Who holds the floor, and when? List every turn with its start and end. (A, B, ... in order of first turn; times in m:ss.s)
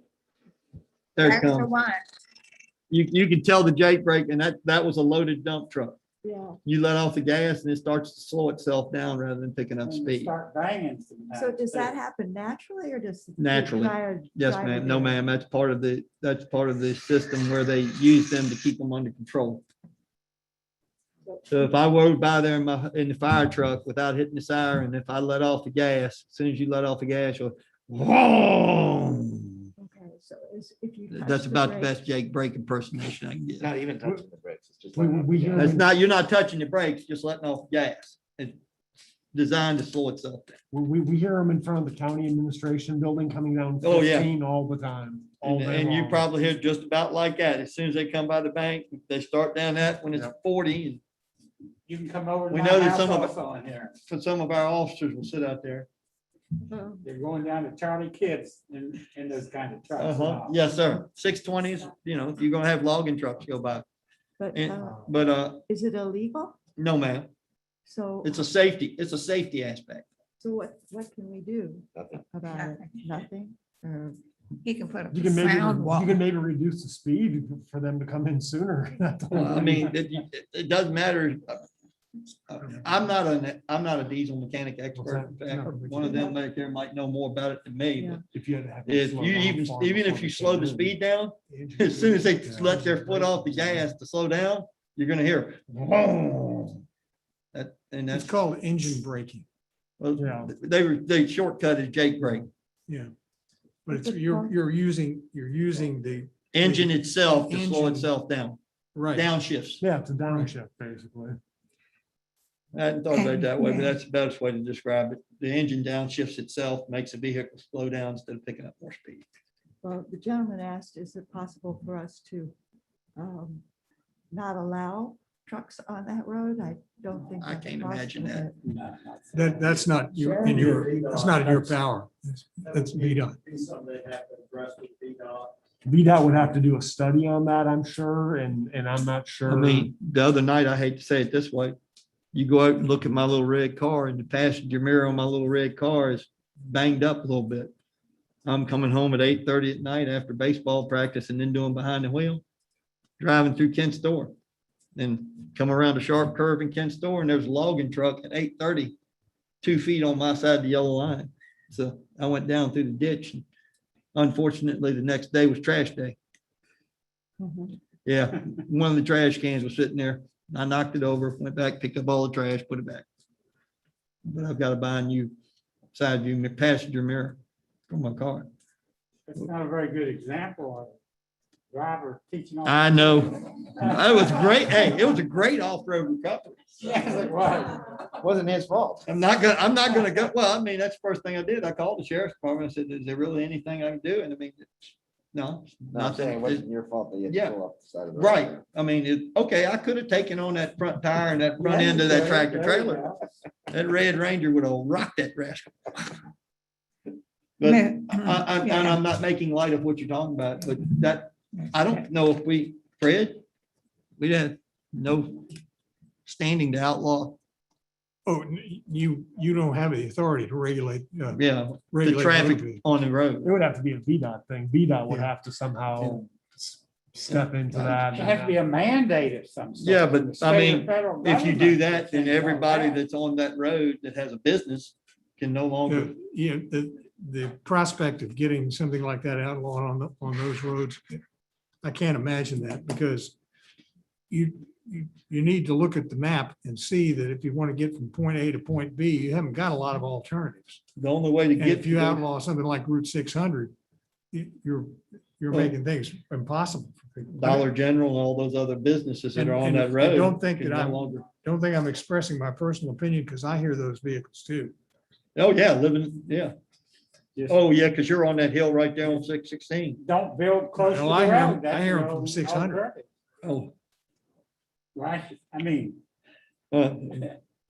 0:01.2-0:01.7 A
0:01.2-0:02.0 B
0:02.9-0:06.0 A
0:06.2-0:06.6 C
0:06.6-0:10.3 A
0:09.8-0:12.0 D
0:11.3-0:15.2 C
0:13.4-0:19.6 A
0:21.2-0:21.9 C
0:21.5-0:29.6 A
0:29.8-0:32.0 C
0:31.1-0:33.7 A
0:33.6-0:35.8 E
0:34.9-0:35.8 F
0:35.5-0:38.6 A
0:39.3-0:40.6 A
0:40.7-0:46.2 F
0:43.8-0:44.3 A
0:45.4-0:51.0 A
0:51.9-0:53.9 D
0:52.5-0:53.3 A
0:54.1-0:55.9 A
0:56.7-0:57.0 C
0:57.0-1:00.6 D
1:00.0-1:03.8 A
1:04.4-1:05.0 C
1:04.5-1:05.6 A
1:05.7-1:06.6 C
1:06.8-1:07.3 A
1:07.8-1:08.3 C
1:08.2-1:10.0 A
1:10.4-1:14.2 C
1:12.5-1:12.8 B
1:14.6-1:16.2 B
1:15.1-1:19.9 F
1:19.3-1:21.6 A
1:22.5-1:28.2 A
1:25.0-1:25.6 F
1:25.6-1:26.0 G
1:28.3-1:30.9 F
1:28.8-1:36.8 A
1:31.5-1:33.9 F
1:37.5-1:38.3 A
1:38.1-1:39.4 G
1:40.0-1:42.5 A
1:40.2-1:40.5 F
1:43.8-1:46.9 G
1:46.5-1:48.6 A
1:47.4-1:48.1 G
1:48.9-1:49.2 G
1:49.1-1:49.8 A
1:49.8-1:51.4 F
1:52.7-1:59.2 A
1:53.1-1:54.0 B
1:59.8-2:02.5 C
2:03.2-2:03.6 C
2:04.3-2:08.5 C
2:07.4-2:08.5 A
2:08.6-2:09.8 D
2:09.3-2:13.4 G
2:10.1-2:11.7 A
2:10.3-2:10.8 C
2:12.6-2:15.5 A
2:15.8-2:19.9 F
2:19.5-2:21.8 A
2:22.3-2:27.7 A
2:28.4-2:32.4 A
2:33.2-2:34.3 A
2:35.0-2:39.0 A
2:39.6-2:43.4 A
2:44.1-2:46.2 A
2:47.4-2:47.7 C
2:48.0-2:53.0 A
2:54.2-2:55.3 A
2:55.9-2:57.4 A
2:57.9-2:58.5 A
2:59.3-3:00.9 D
3:01.7-3:04.8 D
3:02.6-3:06.8 A
3:06.8-3:08.0 D
3:08.2-3:09.0 E
3:09.1-3:16.6 A
3:15.9-3:18.6 E
3:17.3-3:17.6 A
3:18.1-3:23.0 A
3:21.6-3:23.2 D
3:23.7-3:25.7 A
3:27.6-3:33.4 A
3:27.6-3:29.0 B
3:34.2-3:35.5 A
3:36.2-3:37.4 A
3:38.2-3:42.8 G
3:41.3-3:43.5 A
3:43.4-3:48.6 F
3:46.0-3:46.2 A
3:47.3-3:48.0 A
3:47.9-3:53.0 D
3:49.8-3:56.1 A
3:55.9-4:01.2 G
4:01.8-4:03.4 G
4:04.3-4:10.8 G
4:11.0-4:12.2 A
4:11.6-4:13.7 G
4:14.3-4:17.7 G
4:17.3-4:21.2 A
4:19.3-4:24.7 G
4:25.4-4:26.5 A
4:27.5-4:30.0 A
4:30.0-4:33.0 D
4:30.8-4:32.8 G
4:33.4-4:33.7 A
4:34.9-4:36.0 D
4:36.7-4:37.3 A